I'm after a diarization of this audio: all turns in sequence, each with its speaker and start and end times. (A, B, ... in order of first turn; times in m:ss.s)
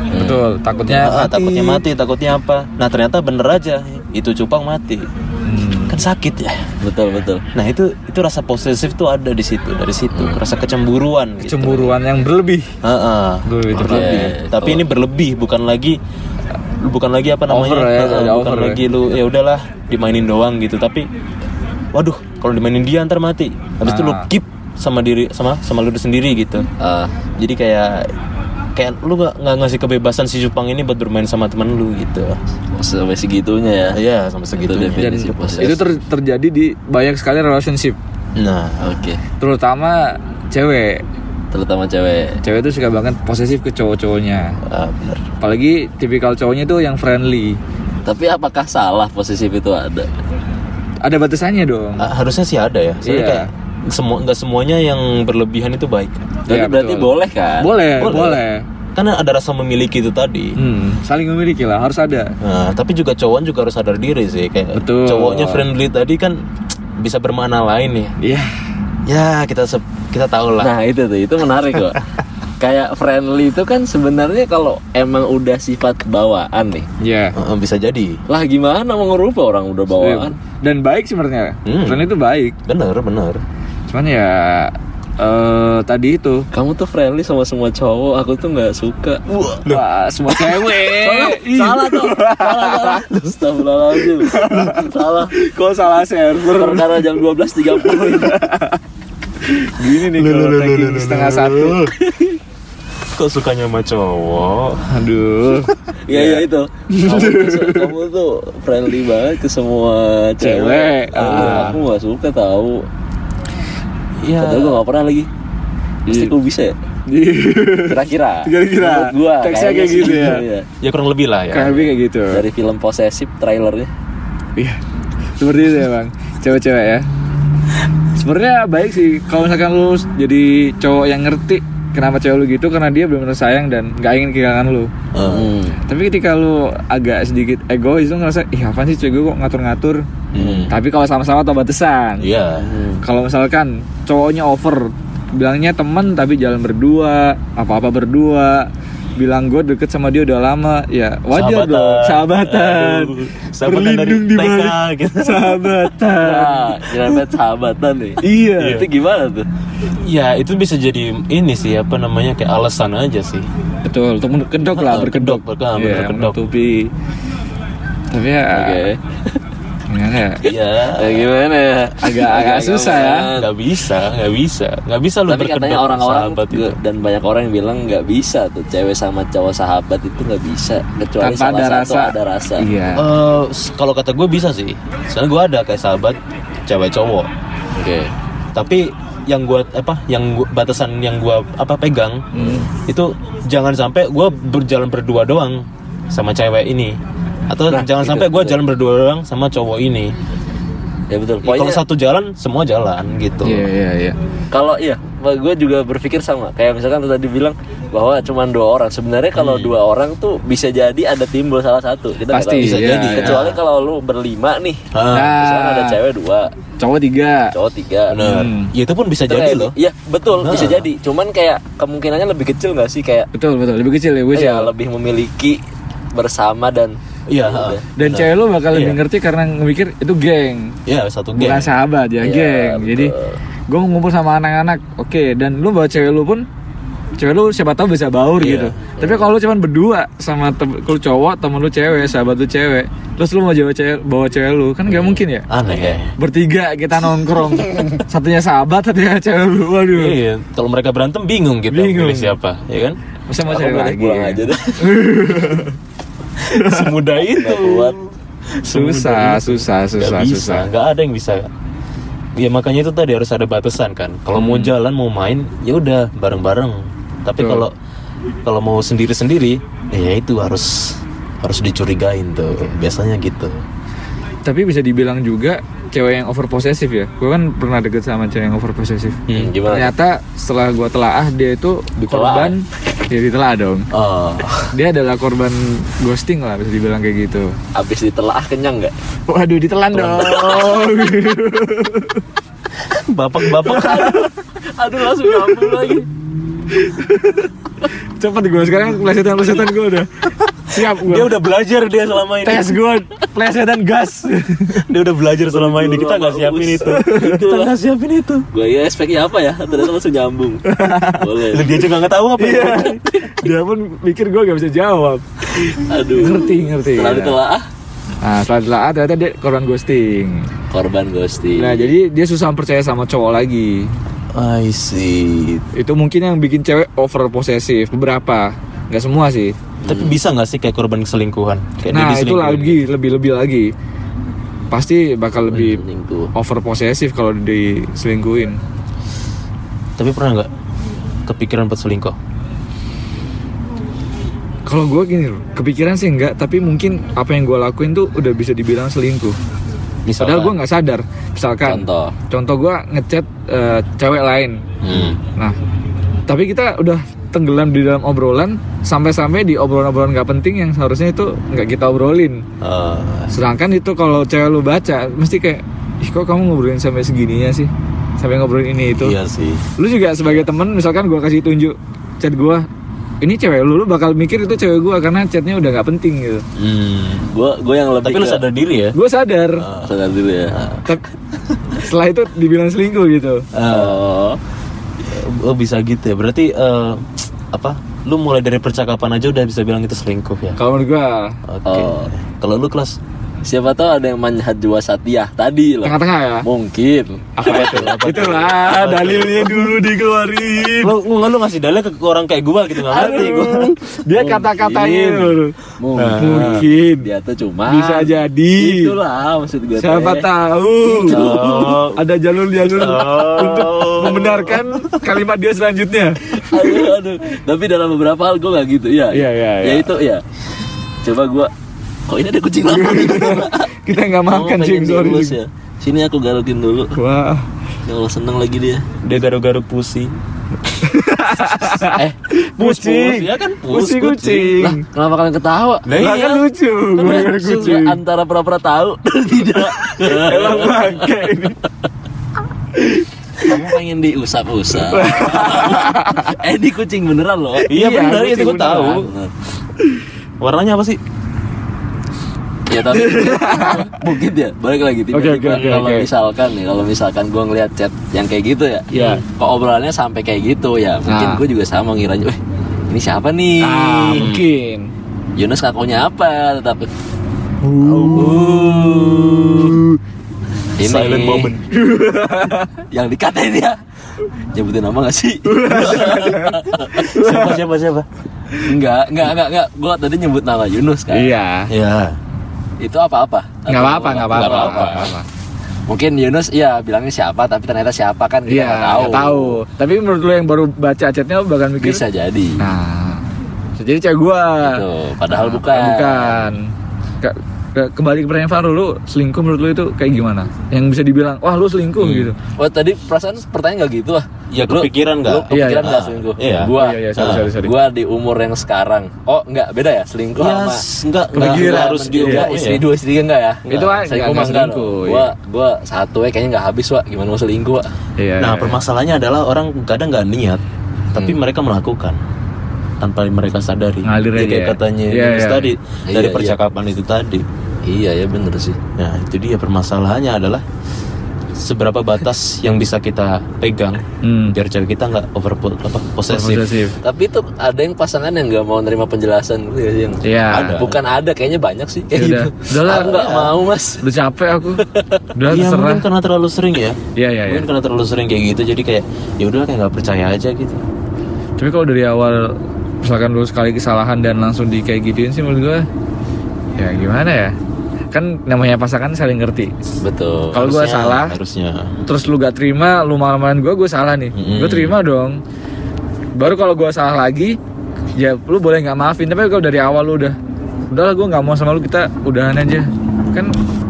0:00.1-0:00.4 A
0:00.1-0:01.8 B
0:00.9-0:05.1 C
0:05.5-0:06.0 B
0:05.9-0:06.7 C
0:06.8-0:07.4 A
0:07.5-0:11.9 C
0:11.4-0:12.7 B
0:12.8-0:16.0 C
0:13.4-0:14.4 B
0:13.8-0:14.8 A
0:16.8-0:21.1 C
0:17.5-0:18.8 B
0:21.9-0:26.7 C
0:23.8-0:24.3 B
0:26.8-0:27.1 A
0:27.4-0:28.1 C
0:28.8-0:32.4 C
0:32.8-0:34.0 A
0:33.9-0:35.8 C
0:34.6-0:35.8 A
0:35.0-0:38.0 B
0:38.4-0:39.0 C
0:38.8-0:39.2 A
0:39.4-0:41.0 B
0:41.5-0:42.4 A
0:42.4-0:44.6 B
0:44.6-0:45.3 C
0:45.4-0:47.6 B
0:48.0-0:50.1 A
0:51.0-0:52.1 B
0:52.0-0:56.3 C
0:53.0-0:53.5 B
0:56.5-0:57.7 A
0:56.5-0:58.6 B
0:58.0-0:58.4 C
0:59.0-1:00.6 C
1:00.6-1:02.3 B
1:02.4-1:06.4 C
1:04.7-1:05.6 B
1:07.0-1:08.1 C
1:08.2-1:08.6 B
1:09.1-1:10.7 C
1:10.6-1:12.0 A
1:12.6-1:16.9 A
1:17.0-1:17.4 B
1:17.3-1:18.2 C
1:18.3-1:20.4 A
1:20.0-1:22.5 B
1:21.6-1:22.1 C
1:22.7-1:23.4 C
1:23.9-1:26.5 B
1:26.5-1:29.4 A
1:29.6-1:33.0 B
1:30.4-1:35.3 A
1:34.1-1:37.2 B
1:36.4-1:38.4 A
1:37.7-1:38.8 B
1:39.5-1:41.8 B
1:39.8-1:42.0 C
1:42.0-1:42.4 A
1:43.1-1:44.9 C
1:44.9-1:45.7 B
1:46.1-1:52.9 A
1:46.1-1:46.4 C
1:46.9-1:48.0 B
1:50.4-1:51.8 B
1:51.3-1:51.8 C
1:54.2-1:54.8 C
1:54.4-1:55.3 A
1:56.1-1:56.8 A
1:56.1-1:56.3 B
1:57.1-2:00.4 B
1:57.8-2:00.7 A
2:00.8-2:01.8 C
2:01.5-2:02.4 B
2:01.7-2:03.9 A
2:05.4-2:07.1 B
2:08.2-2:14.9 B
2:15.1-2:15.5 C
2:15.2-2:15.8 A
2:15.9-2:20.0 B
2:20.3-2:20.7 C
2:20.4-2:20.7 A
2:20.7-2:22.3 B
2:22.2-2:22.8 C
2:22.6-2:23.0 A
2:23.0-2:36.8 B
2:31.3-2:35.9 C
2:36.2-2:39.5 A
2:38.2-2:38.8 B
2:40.0-2:43.5 C
2:43.8-2:46.9 B
2:44.7-2:46.4 C
2:48.1-2:48.8 B
2:48.5-2:49.4 A
2:49.9-2:50.4 B
2:50.4-2:51.3 C
2:50.9-2:53.5 A
2:52.0-2:53.3 B
2:53.3-2:56.8 C
2:55.3-3:02.7 A
3:01.2-3:03.1 B
3:02.9-3:07.3 C
3:07.8-3:08.1 A
3:08.5-3:17.0 C
3:12.4-3:12.7 B
3:12.4-3:12.7 A
3:17.5-3:20.1 C
3:17.7-3:18.6 A
3:21.1-3:21.8 A
3:21.4-3:23.7 C
3:23.4-3:24.2 B
3:24.5-3:36.5 A
3:29.4-3:29.8 C
3:32.3-3:33.4 B
3:32.6-3:33.6 C
3:34.9-3:35.3 C
3:35.1-3:36.0 B
3:36.8-3:37.5 B
3:37.5-3:38.2 A
3:38.1-3:39.7 C
3:38.2-3:38.7 B
3:39.3-3:43.3 A
3:40.4-3:40.9 C
3:43.3-3:44.7 B
3:44.3-3:45.6 A
3:46.1-3:47.9 A
3:47.3-3:49.0 C
3:48.0-3:50.8 B
3:50.9-3:51.7 C
3:51.4-3:53.1 B
3:52.2-3:53.4 A
3:53.7-3:56.5 B
3:57.2-4:05.5 B
3:58.4-3:58.8 C
3:59.0-3:59.3 A
4:04.9-4:06.0 A
4:05.5-4:06.1 C
4:06.2-4:10.2 B
4:09.9-4:13.0 C
4:11.7-4:12.4 B
4:13.3-4:15.8 B
4:13.5-4:15.0 A
4:16.5-4:16.8 B
4:16.5-4:21.5 C
4:17.3-4:18.0 A
4:18.7-4:20.7 B
4:22.4-4:27.7 C
4:24.4-4:24.7 B
4:27.4-4:27.6 B
4:28.4-4:33.6 C
4:34.5-4:43.9 B
4:39.3-4:39.5 C
4:39.3-4:40.0 A
4:42.0-4:42.6 A
4:43.9-4:44.7 C
4:44.7-4:47.5 B
4:47.8-4:48.9 A
4:49.3-4:52.2 B
4:50.0-4:50.9 A
4:52.8-4:54.2 C
4:53.6-4:56.1 A
4:53.7-4:54.3 B
4:56.7-4:57.5 B
4:58.2-5:01.3 B
5:00.8-5:02.8 C
5:02.4-5:04.8 B
5:04.8-5:08.5 C
5:05.5-5:07.7 A
5:06.9-5:07.3 B
5:08.5-5:11.7 A
5:10.7-5:11.3 B
5:11.5-5:13.0 C
5:12.4-5:15.3 B
5:15.7-5:17.7 A
5:16.1-5:17.4 B
5:18.2-5:20.5 B
5:20.7-5:21.9 A
5:21.6-5:23.9 B
5:24.3-5:25.6 C
5:25.8-5:29.6 B
5:29.8-5:30.2 A
5:29.8-5:32.8 C
5:31.9-5:33.7 B
5:34.7-5:35.8 B
5:35.5-5:36.3 A
5:36.4-5:38.6 B
5:40.0-5:40.5 C
5:41.3-5:42.2 C
5:44.7-5:49.4 B
5:50.1-5:50.6 C
5:50.2-5:54.6 B
5:51.6-5:52.1 A
5:54.8-5:55.2 C
5:56.3-6:02.4 B
6:02.6-6:03.3 C
6:03.3-6:09.2 B
6:09.0-6:09.7 C
6:09.8-6:12.7 B
6:13.2-6:16.4 B
6:16.6-6:17.3 C
6:17.3-6:18.4 A
6:18.0-6:19.0 C
6:18.9-6:19.7 B
6:19.6-6:20.0 C
6:19.8-6:20.6 A
6:20.5-6:20.8 C
6:21.8-6:23.4 B
6:23.5-6:24.0 C
6:23.7-6:24.4 A
6:25.0-6:30.6 C
6:30.6-6:31.4 B
6:31.5-6:33.0 C
6:31.7-6:32.1 A
6:33.4-6:37.9 A
6:35.8-6:36.5 B
6:37.4-6:40.9 B
6:37.4-6:39.8 C
6:40.8-6:43.8 C
6:42.9-6:45.5 B
6:43.0-6:43.5 A
6:44.1-6:50.3 A
6:45.9-6:46.7 C
6:46.2-6:47.1 B
6:47.7-6:48.9 B
6:49.8-6:51.2 B
6:50.9-6:51.8 A
6:51.1-6:52.0 C
6:52.0-6:56.8 B
6:52.7-6:55.0 C
6:53.0-6:53.7 A
6:56.4-7:00.2 A
6:59.1-6:59.9 B
7:01.0-7:01.5 A
7:02.1-7:03.7 A
7:02.7-7:05.4 B
7:04.2-7:07.0 A
7:07.0-7:07.5 B
7:07.9-7:08.9 A
7:09.0-7:10.1 C
7:10.8-7:14.8 B
7:11.5-7:14.7 C
7:14.8-7:15.9 A
7:15.9-7:16.5 C
7:16.0-7:18.0 B
7:17.0-7:21.2 A
7:17.0-7:17.5 C
7:19.8-7:21.6 B
7:22.8-7:23.1 B
7:23.4-7:27.7 A
7:23.4-7:23.9 C
7:24.9-7:26.4 B
7:27.6-7:29.0 B
7:27.7-7:29.1 C
7:29.0-7:29.3 A
7:30.4-7:31.0 C
7:32.7-7:42.4 A
7:32.9-7:34.0 B
7:35.1-7:36.1 B
7:38.9-7:39.2 B
7:38.9-7:39.2 C
7:41.1-7:41.4 B
7:42.9-7:44.3 A
7:43.6-7:44.9 B
7:44.1-7:44.4 C
7:45.4-7:46.9 A
7:47.6-7:50.0 B
7:47.8-7:49.3 C
7:48.2-7:49.8 A
7:50.8-7:51.5 A
7:50.8-7:51.6 C
7:51.7-7:52.7 B
7:52.9-7:53.8 A
7:54.5-7:57.0 A
7:55.5-7:57.6 B
7:57.0-7:58.1 C
7:58.6-8:01.3 A
8:01.1-8:01.7 B
8:01.7-8:02.2 C
8:02.8-8:05.1 A
8:03.7-8:05.3 B
8:04.3-8:05.1 C
8:05.9-8:09.6 A
8:08.5-8:12.0 B
8:11.8-8:12.6 A
8:12.6-8:13.2 B
8:13.8-8:16.7 B
8:14.6-8:16.5 A
8:17.2-8:22.4 B
8:22.0-8:37.9 A
8:24.5-8:27.5 C
8:25.5-8:26.0 B
8:26.8-8:27.8 B
8:30.4-8:32.8 C
8:31.3-8:32.5 B
8:33.7-8:35.3 B
8:38.2-8:38.8 B
8:38.4-8:40.6 C
8:41.1-8:42.2 C
8:43.0-8:47.5 C
8:44.0-8:45.7 B
8:46.1-8:46.6 A
8:47.8-8:48.8 A
8:49.0-8:50.6 C
8:51.6-8:54.0 C
8:54.2-8:54.6 B
8:54.5-8:56.8 C
8:56.3-8:57.0 B
8:57.0-9:04.0 A
9:00.2-9:00.8 B
9:00.5-9:01.0 C
9:02.1-9:03.2 B
9:02.8-9:03.6 C
9:04.0-9:06.0 B
9:04.8-9:05.2 A
9:05.5-9:10.8 C
9:07.2-9:07.7 B
9:11.6-9:15.9 B
9:16.8-9:17.6 B
9:18.1-9:19.7 B
9:20.0-9:20.6 A
9:20.5-9:21.4 B
9:20.5-9:21.9 C
9:22.1-9:25.4 B
9:24.3-9:25.0 C
9:26.4-9:27.6 B
9:28.2-9:30.4 B
9:30.9-9:33.5 B